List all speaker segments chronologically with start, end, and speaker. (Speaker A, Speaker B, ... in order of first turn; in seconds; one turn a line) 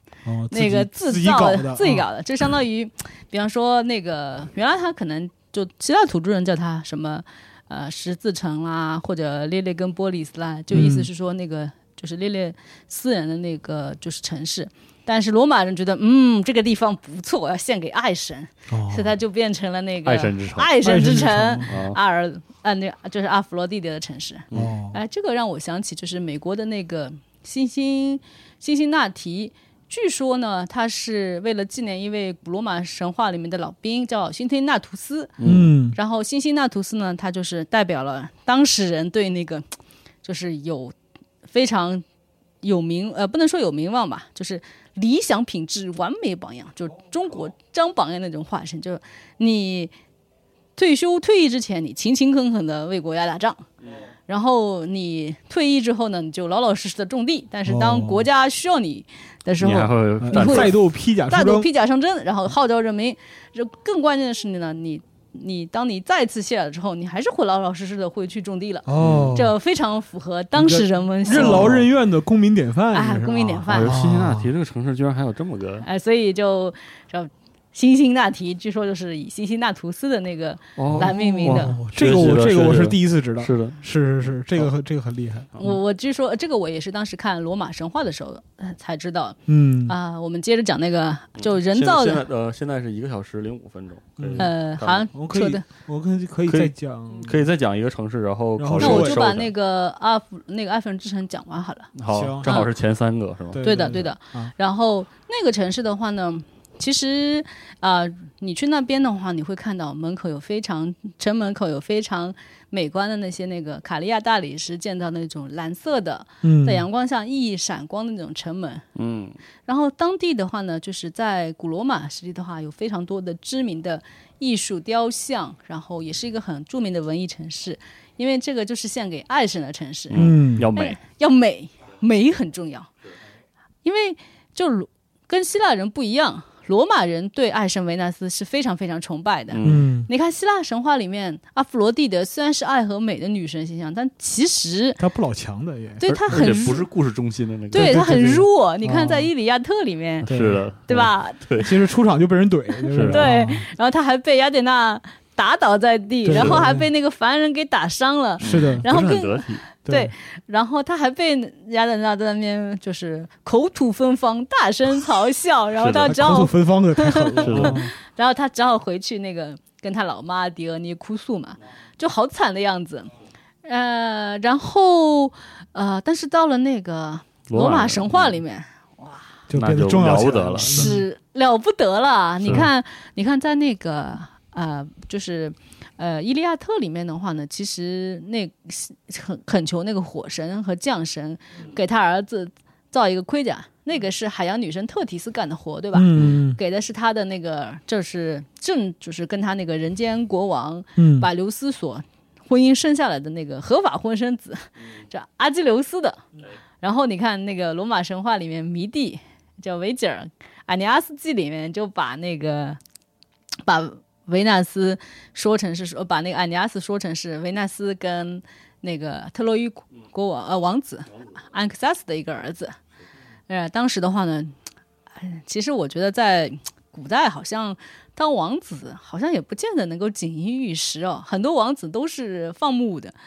Speaker A: 0.2-2.1
Speaker B: 0.5-35.4
Speaker A: 10.7-11.1
Speaker A: 18.7-19.1
Speaker C: 20.0-20.8
Speaker A: 20.8-21.7
Speaker C: 21.7-22.0
Speaker A: 24.5-25.0
Speaker C: 35.4-35.7
Speaker A: 35.4-36.0
Speaker B: 35.9-39.6
Speaker B: 40.2-40.9
Speaker B: 41.4-42.0
Speaker B: 42.6-49.9
Speaker B: 50.8-53.6
Speaker B: 54.3-71.8
Speaker A: 57.6-58.2
Speaker C: 59.6-60.8
Speaker A: 60.2-61.7
Speaker A: 68.9-69.5
Speaker C: 69.0-69.3
Speaker A: 70.5-74.5
Speaker C: 71.3-71.8
Speaker B: 72.9-74.0
Speaker C: 73.7-75.8
Speaker B: 75.8-81.8
Speaker C: 80.8-83.8
Speaker A: 80.9-85.8
Speaker B: 85.6-92.2
Speaker A: 89.5-89.9
Speaker C: 91.4-95.1
Speaker A: 94.2-94.5
Speaker B: 94.4-95.6
Speaker A: 95.1-97.5
Speaker C: 96.5-99.5
Speaker A: 98.6-99.2
Speaker B: 98.8-101.9
Speaker C: 102.0-103.8
Speaker A: 102.1-102.7
Speaker B: 102.4-102.7
Speaker A: 103.5-104.5
Speaker B: 103.6-118.8
Speaker A: 116.4-116.8
Speaker C: 119.0-119.3
Speaker B: 119.7-132.9
Speaker C: 130.1-131.0
Speaker A: 130.1-130.7
Speaker B: 133.8-145.0
Speaker C: 139.5-139.8
Speaker A: 139.6-140.1
Speaker A: 145.0-146.7
Speaker B: 146.0-146.8
Speaker C: 146.3-148.2
Speaker A: 147.7-149.3
Speaker B: 147.7-150.3
Speaker A: 150.2-150.6
Speaker C: 150.3-151.7
Speaker B: 150.9-151.4
Speaker A: 151.6-153.7
Speaker C: 152.9-153.3
Speaker B: 153.0-173.1
Speaker A: 156.2-156.8
Speaker C: 156.3-156.6
Speaker A: 158.4-158.8
Speaker C: 158.4-159.6
Speaker A: 159.8-160.1
Speaker C: 165.8-166.2
Speaker A: 166.0-167.9
Speaker C: 167.4-167.8
Speaker B: 173.6-179.3
Speaker C: 177.5-178.3
Speaker A: 179.5-181.0
Speaker C: 179.5-180.9
Speaker B: 180.6-206.2
Speaker A: 195.9-196.6
Speaker A: 200.9-201.3
Speaker B: 206.8-212.8
Speaker B: 213.6-222.8
Speaker B: 223.5-224.5
Speaker B: 225.2-233.1